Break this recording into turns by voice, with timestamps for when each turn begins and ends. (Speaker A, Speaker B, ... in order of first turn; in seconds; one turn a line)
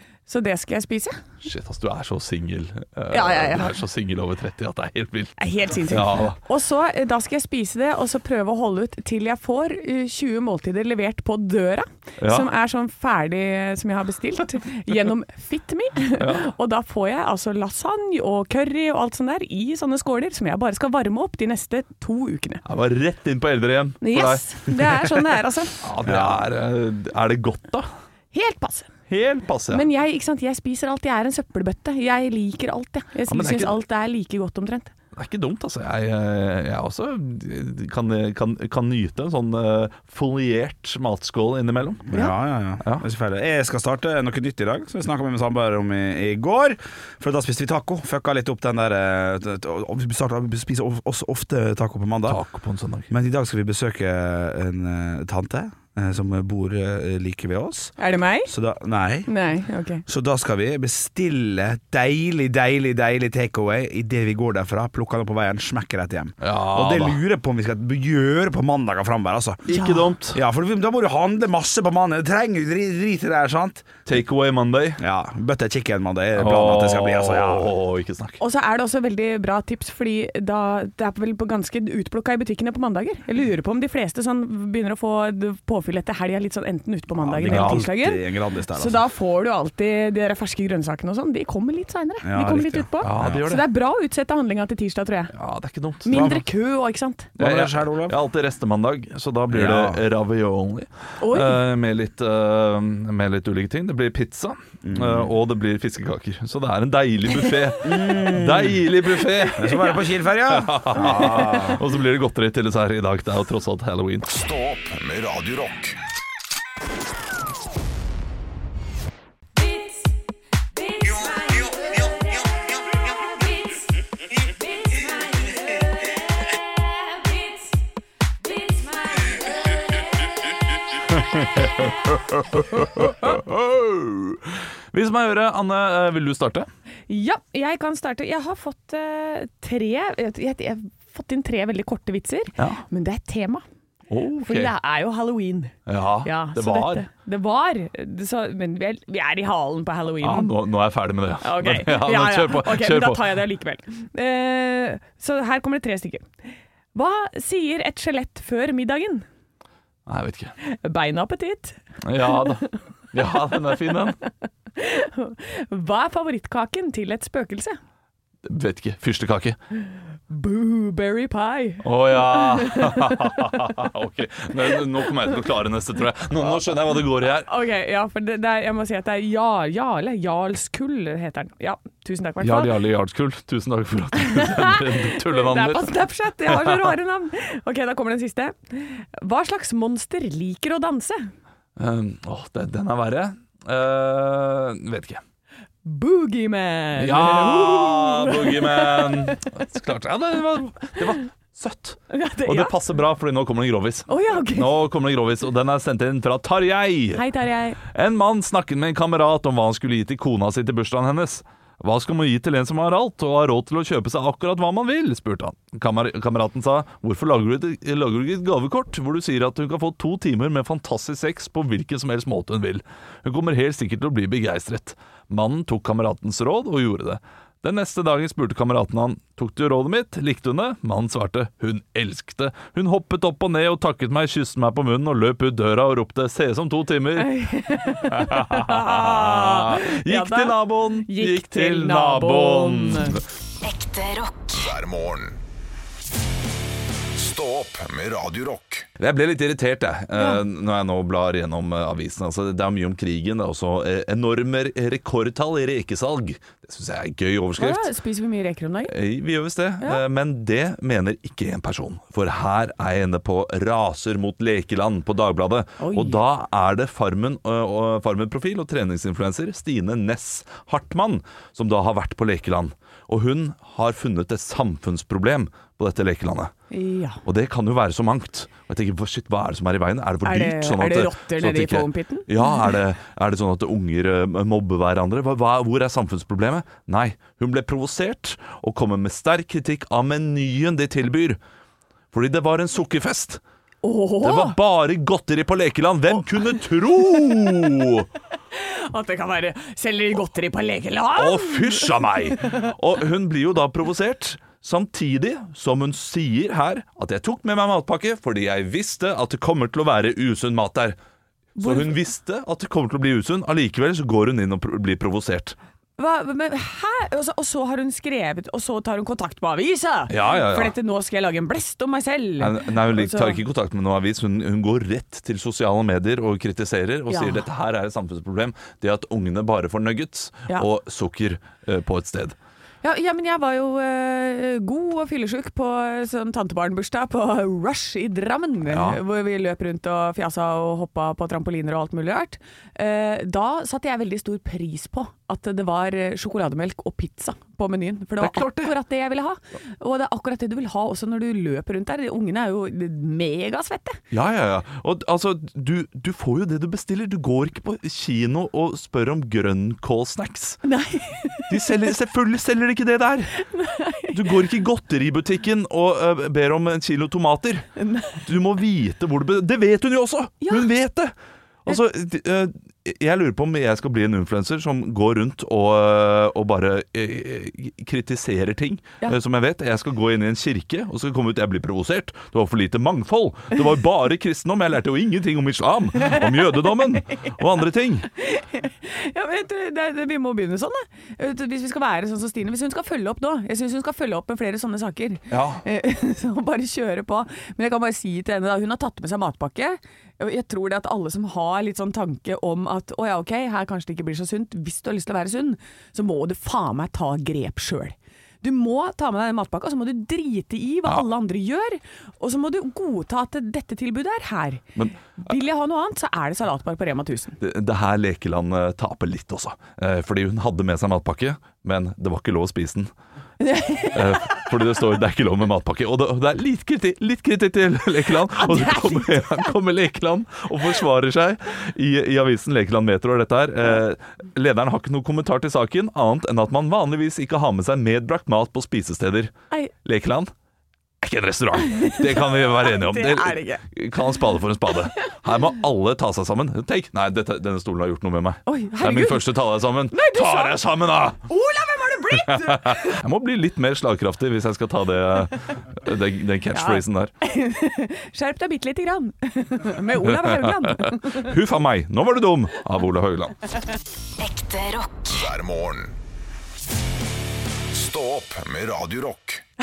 Speaker A: 0.3-1.2
Speaker B: 1.4-6.4
Speaker A: 3.1-3.8
Speaker A: 5.4-22.6
Speaker B: 12.2-12.5
Speaker B: 16.2-16.5
Speaker B: 22.7-25.2
Speaker A: 24.0-25.8
Speaker B: 25.8-27.9
Speaker C: 26.1-26.4
Speaker A: 28.3-28.9
Speaker B: 29.1-29.9
Speaker A: 29.7-34.9
Speaker B: 33.3-33.8
Speaker B: 35.1-42.1
Speaker C: 42.1-52.4
Speaker B: 42.8-43.1
Speaker B: 52.3-53.1
Speaker C: 53.1-59.3
Speaker A: 58.0-58.5
Speaker A: 59.3-60.0
Speaker C: 60.1-69.6
Speaker B: 66.4-67.2
Speaker B: 69.7-70.4
Speaker A: 69.7-70.1
Speaker C: 70.3-74.0
Speaker B: 74.1-75.0
Speaker C: 75.0-77.7
Speaker B: 76.3-78.4
Speaker A: 78.4-95.3
Speaker C: 87.2-89.0
Speaker B: 87.5-87.9
Speaker C: 92.2-93.4
Speaker B: 93.0-93.7
Speaker B: 95.3-96.3
Speaker A: 96.0-97.3
Speaker C: 96.1-96.4
Speaker B: 97.4-110.0
Speaker C: 97.4-98.1
Speaker C: 99.5-100.0
Speaker A: 101.2-101.6
Speaker C: 104.8-105.3
Speaker C: 107.8-108.8
Speaker C: 109.5-111.8
Speaker B: 110.5-114.3
Speaker A: 111.0-111.6
Speaker D: 114.3-116.0
Speaker A: 120.9-122.1
Speaker A: 123.3-123.8
Speaker A: 124.9-125.8
Speaker A: 128.7-129.5
Speaker B: 131.4-136.7
Speaker A: 137.1-143.6
Speaker B: 142.6-142.8
Speaker B: 144.1-144.7
Speaker A: 144.4-150.5
Speaker B: 145.9-147.1
Speaker B: 150.2-153.4
Speaker A: 151.4-156.3
Speaker A: 156.9-159.3
Speaker B: 160.1-160.5
Speaker A: 160.6-162.8
Speaker B: 162.0-164.2
Speaker A: 163.5-164.0
Speaker A: 164.8-167.8
Speaker B: 168.4-169.6
Speaker A: 170.3-173.7
Speaker B: 171.8-177.5
Speaker A: 177.4-182.8
Speaker B: 182.4-186.9
Speaker A: 184.3-191.3
Speaker B: 191.8-195.2
Speaker A: 195.8-199.5
Speaker B: 197.0-207.2
Speaker A: 202.1-202.8
Speaker A: 204.1-204.7
Speaker A: 207.1-207.8
Speaker B: 207.8-237.3
Speaker A: 237.2-243.2
Speaker B: 238.1-243.2
Speaker E: 243.6-244.7
Speaker D: 244.5-245.4
Speaker D: 247.2-248.9
Speaker B: 249.0-257.9
Speaker A: 250.2-250.4
Speaker A: 257.6-258.9
Speaker B: 258.9-276.5
Speaker A: 265.8-266.2
Speaker A: 276.7-277.2
Speaker B: 277.2-291.4
Speaker A: 280.2-282.8
Speaker B: 292.1-293.4
Speaker A: 293.8-294.6
Speaker B: 294.2-298.1
Speaker A: 298.5-302.7
Speaker B: 301.1-311.0
Speaker A: 311.6-311.9
Speaker B: 311.6-315.6
Speaker A: 316.0-323.4
Speaker B: 320.1-320.8
Speaker B: 322.4-332.4
Speaker A: 327.1-327.4
Speaker A: 332.8-354.0
Speaker B: 338.7-339.0
Speaker B: 348.2-348.7
Speaker B: 354.1-360.6
Speaker A: 360.6-361.6
Speaker B: 361.5-363.4
Speaker A: 363.5-364.2
Speaker B: 364.1-367.7
Speaker A: 367.8-368.2
Speaker B: 368.2-371.1
Speaker A: 370.4-370.7
Speaker B: 371.6-388.1
Speaker A: 386.0-387.3
Speaker A: 388.1-414.6
Speaker B: 395.3-395.6
Speaker A: 415.2-417.4
Speaker B: 417.4-422.9
Speaker A: 423.4-424.5
Speaker B: 423.9-440.3
Speaker A: 428.3-429.5
Speaker B: 441.0-451.2
Speaker A: 441.6-443.6
Speaker A: 448.5-449.3
Speaker A: 449.9-450.6
Speaker A: 451.2-453.0
Speaker B: 452.1-457.1
Speaker A: 456.5-461.3
Speaker B: 460.0-463.4
Speaker E: 464.2-465.1
Speaker D: 465.1-465.9
Speaker D: 467.7-469.4